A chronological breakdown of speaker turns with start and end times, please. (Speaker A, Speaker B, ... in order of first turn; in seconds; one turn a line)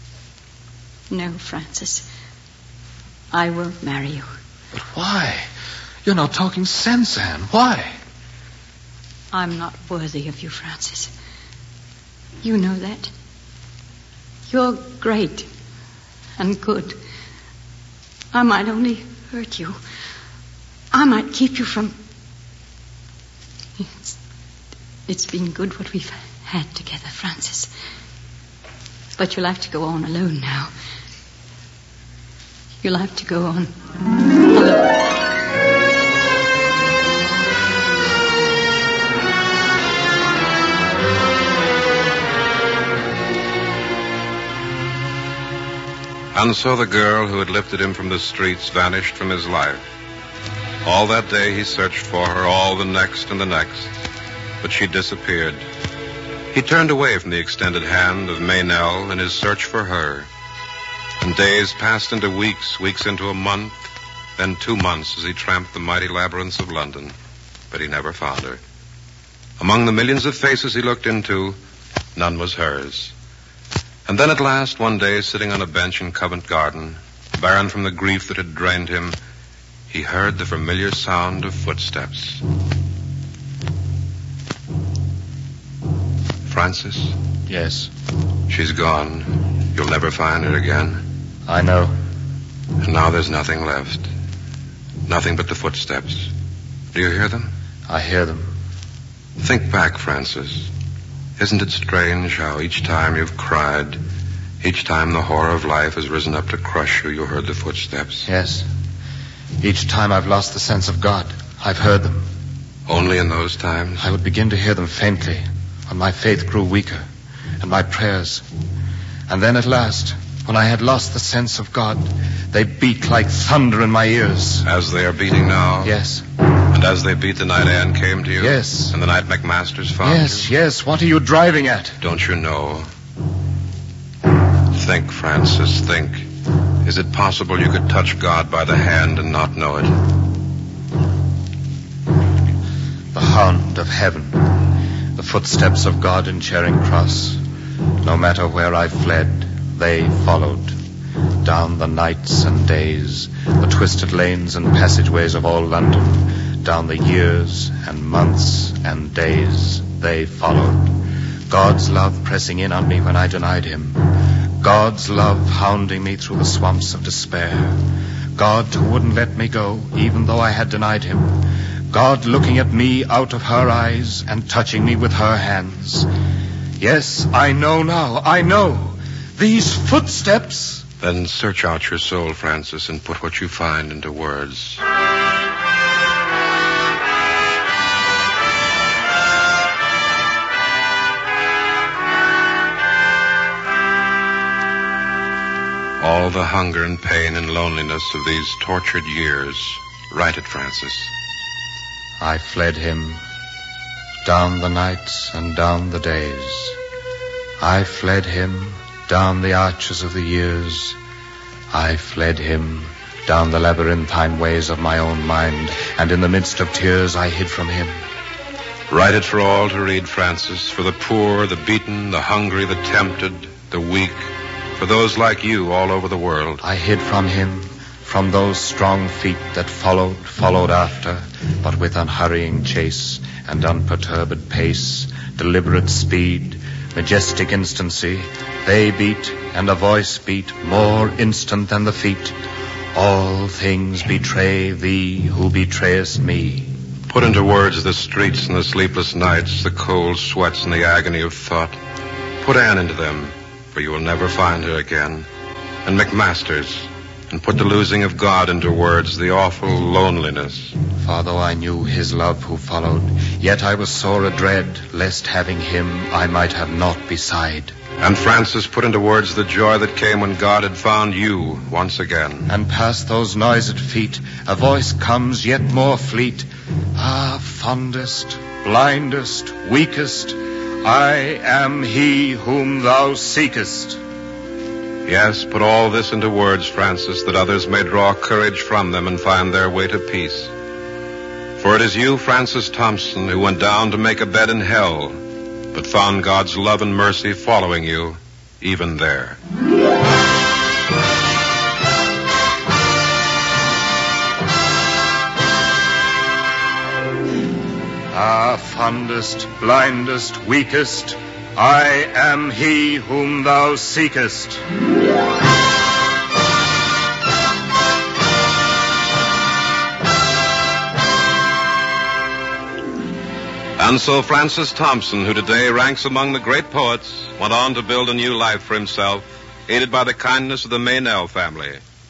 Speaker A: 1.1-2.0
Speaker A: 3.3-4.3
Speaker B: 4.7-5.5
Speaker B: 6.0-8.0
Speaker A: 9.3-11.1
Speaker A: 12.4-13.1
Speaker A: 14.5-15.5
Speaker A: 16.4-17.0
Speaker A: 18.3-19.8
Speaker A: 20.9-21.9
Speaker A: 23.8-24.1
Speaker A: 25.1-27.7
Speaker A: 29.2-30.7
Speaker A: 32.8-33.7
Speaker A: 34.5-35.0
Speaker C: 46.3-49.8
Speaker C: 50.8-53.9
Speaker C: 54.6-55.6
Speaker C: 56.5-60.3
Speaker C: 61.2-63.8
Speaker C: 64.4-67.1
Speaker C: 67.7-68.6
Speaker C: 69.6-71.6
Speaker C: 72.2-73.1
Speaker C: 74.0-79.2
Speaker C: 79.9-82.4
Speaker C: 86.5-87.2
Speaker B: 87.5-87.9
Speaker C: 88.5-91.0
Speaker B: 91.5-92.0
Speaker C: 92.8-94.1
Speaker C: 95.1-96.3
Speaker C: 96.9-97.5
Speaker B: 97.9-98.5
Speaker C: 99.4-100.7
Speaker C: 101.4-104.0
Speaker C: 104.6-108.3
Speaker B: 108.2-108.7
Speaker B: 109.6-112.3
Speaker C: 112.9-114.0
Speaker B: 114.0-117.0
Speaker B: 117.6-118.5
Speaker B: 119.3-124.7
Speaker C: 124.6-125.9
Speaker B: 125.8-126.2
Speaker C: 126.6-130.5
Speaker B: 128.4-129.0
Speaker B: 130.0-132.0
Speaker C: 132.0-132.9
Speaker C: 134.7-136.3
Speaker C: 136.8-140.1
Speaker B: 143.1-147.4
Speaker B: 148.0-150.8
Speaker B: 151.4-176.1
Speaker B: 176.8-180.8
Speaker C: 181.0-184.8
Speaker C: 196.0-201.1
Speaker B: 202.2-203.2
Speaker B: 204.2-206.8
Speaker B: 207.6-211.0
Speaker B: 211.7-218.0
Speaker C: 218.9-226.6
Speaker B: 226.6-242.4
Speaker B: 242.9-246.7
Speaker C: 247.1-251.8
Speaker C: 252.4-255.3
Speaker C: 255.8-260.7
Speaker B: 261.0-267.8
Speaker C: 268.0-272.5
Speaker B: 272.5-284.0
Speaker C: 285.0-290.5
Speaker C: 291.6-295.2
Speaker C: 295.7-299.4
Speaker B: 308.1-314.6
Speaker C: 323.8-331.8